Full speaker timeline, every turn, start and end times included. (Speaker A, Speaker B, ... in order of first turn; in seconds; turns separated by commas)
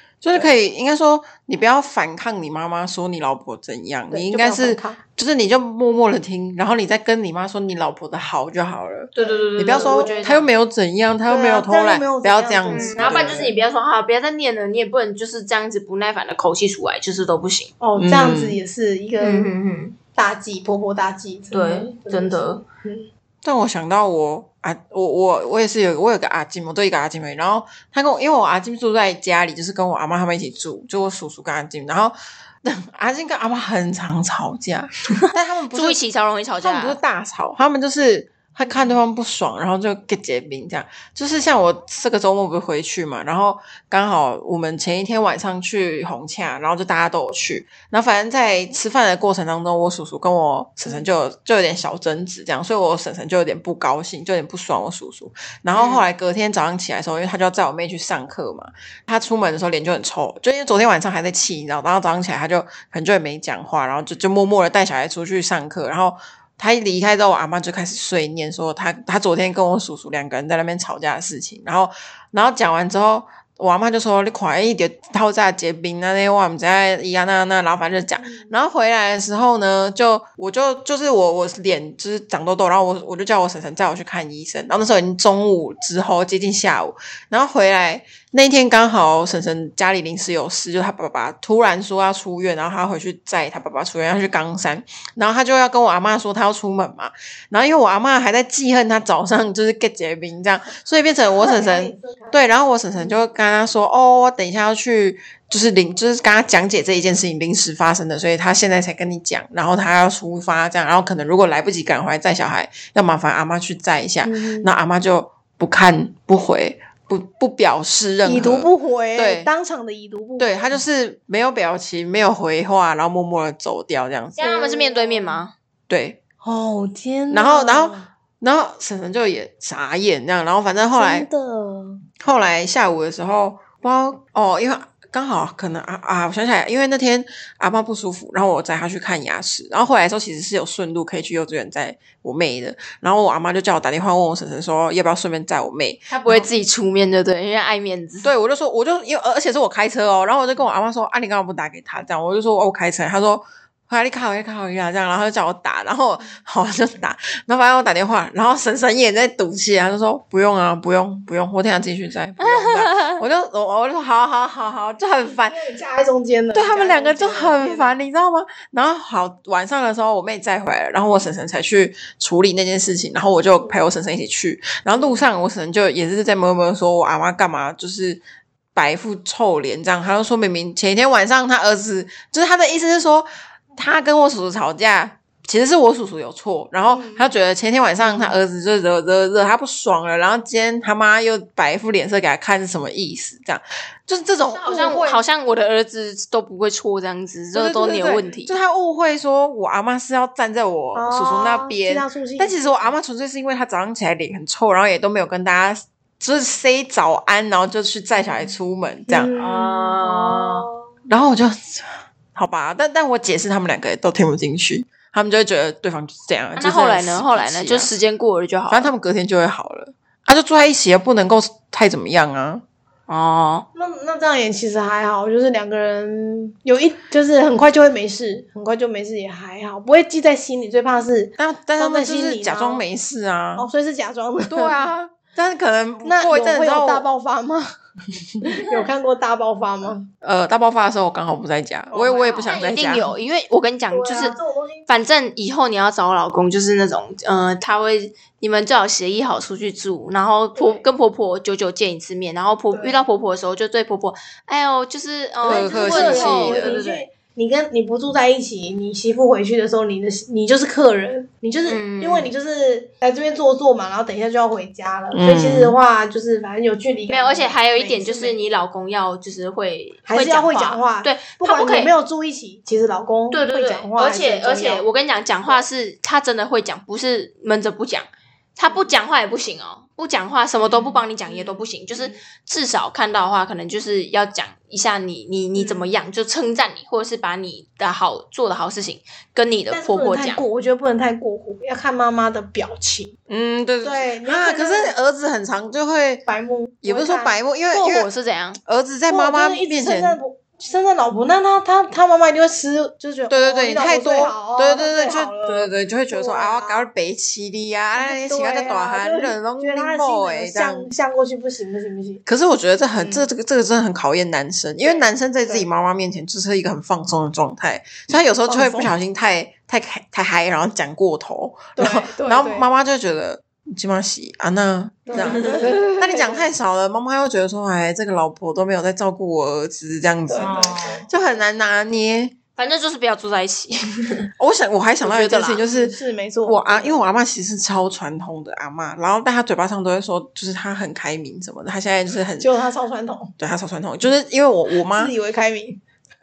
Speaker A: 0.2-13.5, Speaker B: 4.1-5.0, Speaker C: 9.1-10.5, Speaker B: 9.2-10.4, Speaker B: 11.3-13.5, Speaker C: 12.7-17.7, Speaker B: 17.8-19.5, Speaker A: 17.9-18.6, Speaker C: 19.2-20.0, Speaker B: 20.1-23.1, Speaker C: 21.5-22.6, Speaker A: 23.4-36.0, Speaker C: 35.7-37.0, Speaker A: 36.6-119.5, Speaker C: 55.7-56.0, Speaker B: 78.2-78.5, Speaker B: 101.2-103.2, Speaker B: 114.2-114.7, Speaker B: 118.2-120.8, Speaker A: 120.4-124.5, Speaker C: 124.4-125.5, Speaker B: 124.4-125.4, Speaker A: 125.9-126.2, Speaker B: 126.4-128.1, Speaker A: 127.3-131.3, Speaker B: 130.9-132.0, Speaker A: 132.2-146.5, Speaker C: 146.1-148.3, Speaker A: 148.2-165.6, Speaker C: 162.4-163.2, Speaker B: 165.3-168.0, Speaker A: 166.5-178.2, Speaker A: 178.7-195.2, Speaker B: 186.8-187.3, Speaker C: 188.0-188.3, Speaker C: 194.5-198.6, Speaker A: 197.5-209.3, Speaker B: 200.9-202.9, Speaker B: 209.1-210.7, Speaker C: 209.3-210.7, Speaker A: 211.1-218.0, Speaker C: 216.5-218.9, Speaker A: 218.7-222.6, Speaker C: 223.1-223.7, Speaker B: 223.7-232.8, Speaker A: 231.4-233.7, Speaker B: 233.6-234.9, Speaker A: 234.4-237.1, Speaker B: 236.0-237.7, Speaker B: 238.4-240.1, Speaker A: 240.2-243.1, Speaker B: 241.9-243.1, Speaker C: 242.4-244.3, Speaker B: 243.9-244.9, Speaker C: 244.9-257.1, Speaker B: 250.5-250.8, Speaker B: 252.7-253.0, Speaker A: 255.4-256.8, Speaker B: 255.4-268.4, Speaker C: 261.6-262.3, Speaker A: 265.1-265.8, Speaker C: 267.1-271.9, Speaker B: 270.0-274.9, Speaker C: 273.3-278.1, Speaker C: 278.6-290.4, Speaker B: 278.6-278.9, Speaker B: 280.6-282.2, Speaker B: 285.5-285.9, Speaker B: 289.7-293.1, Speaker A: 293.3-296.2, Speaker B: 293.8-294.9, Speaker B: 296.3-297.4, Speaker A: 296.8-298.1, Speaker C: 297.7-298.6, Speaker A: 298.6-300.2, Speaker B: 299.1-306.9, Speaker A: 303.3-310.9, Speaker B: 307.9-312.2, Speaker A: 312.3-332.3, Speaker B: 313.0-313.3, Speaker B: 314.8-315.7, Speaker B: 318.4-318.9, Speaker B: 321.8-322.7, Speaker B: 325.1-326.5, Speaker C: 325.1-325.7, Speaker B: 330.3-331.1, Speaker C: 330.4-331.4, Speaker C: 332.6-334.3, Speaker A: 334.4-342.5, Speaker C: 335.0-335.6, Speaker B: 335.6-337.0, Speaker B: 342.4-343.3, Speaker A: 343.4-345.1, Speaker B: 344.7-345.8